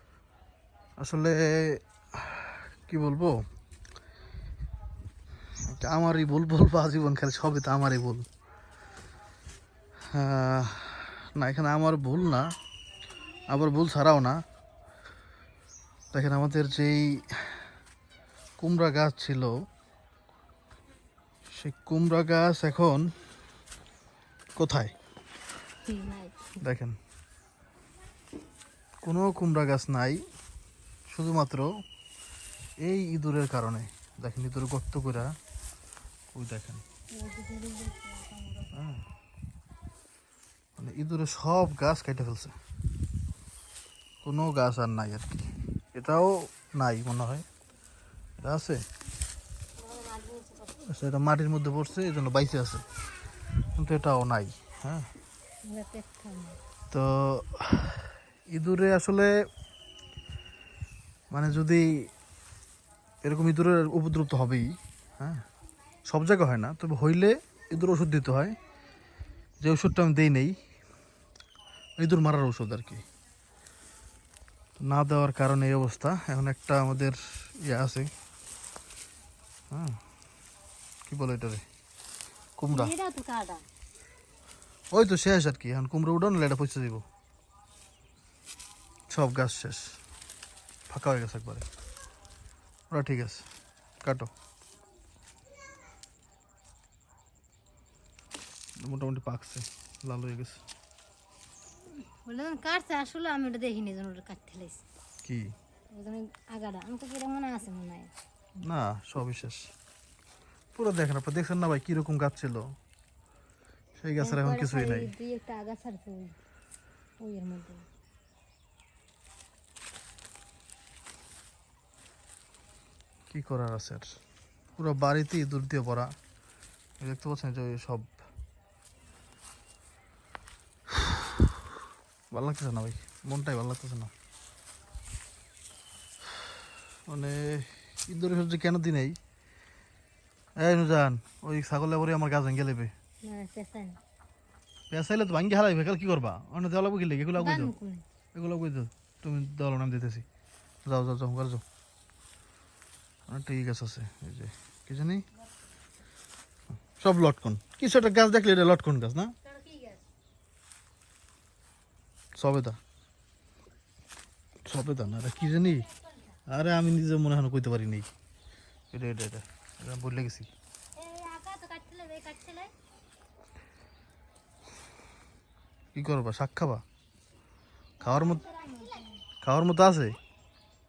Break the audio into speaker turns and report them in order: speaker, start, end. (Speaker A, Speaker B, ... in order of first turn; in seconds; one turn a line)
Speaker A: 1.0-3.4
Speaker A: 5.7-8.3
Speaker A: 10.1-12.5
Speaker A: 13.5-14.4
Speaker A: 16.1-17.6
Speaker A: 18.6-19.6
Speaker A: 21.5-23.1
Speaker A: 24.6-24.9
Speaker B: 25.9-26.6
Speaker A: 26.6-27.0
Speaker A: 29.0-30.2
Speaker A: 31.1-31.8
Speaker A: 32.8-35.3
Speaker A: 36.3-36.8
Speaker B: 37.1-38.7
Speaker A: 38.7-39.0
Speaker A: 40.8-42.6
Speaker A: 44.2-47.5
Speaker A: 48.4-48.8
Speaker B: 49.8-50.8
Speaker A: 50.9-52.9
Speaker A: 53.7-55.1
Speaker B: 55.6-56.6
Speaker A: 56.9-59.5
Speaker A: 61.3-62.1
Speaker A: 63.2-65.5
Speaker A: 66.0-68.6
Speaker A: 69.6-70.5
Speaker A: 72.0-73.0
Speaker A: 74.8-78.1
Speaker A: 79.7-80.0
Speaker A: 81.1-81.6
Speaker A: 82.6-82.9
Speaker B: 82.7-83.6
Speaker A: 84.9-87.0
Speaker A: 89.1-90.0
Speaker A: 90.9-91.7
Speaker A: 92.9-93.5
Speaker A: 94.0-94.3
Speaker A: 98.8-100.6
Speaker B: 102.0-104.8
Speaker A: 105.2-105.5
Speaker B: 105.9-108.1
Speaker A: 108.6-109.7
Speaker A: 110.7-112.7
Speaker A: 114.0-115.1
Speaker B: 114.2-116.3
Speaker B: 117.2-117.8
Speaker A: 123.3-124.2
Speaker A: 124.8-126.1
Speaker A: 127.0-128.2
Speaker A: 131.0-131.3
Speaker A: 132.3-134.1
Speaker A: 137.1-139.2
Speaker A: 140.6-142.9
Speaker B: 143.2-144.0
Speaker A: 144.9-147.7
Speaker B: 147.3-148.0
Speaker A: 148.3-150.2
Speaker A: 150.8-151.6
Speaker A: 153.3-155.2
Speaker A: 157.0-159.3
Speaker B: 159.4-160.1
Speaker A: 162.3-162.8
Speaker A: 164.6-165.9
Speaker B: 165.3-166.4
Speaker A: 166.5-168.1
Speaker A: 168.9-170.5
Speaker B: 170.9-172.7
Speaker A: 175.9-176.8
Speaker B: 178.0-179.2
Speaker A: 178.0-178.4
Speaker A: 179.4-180.2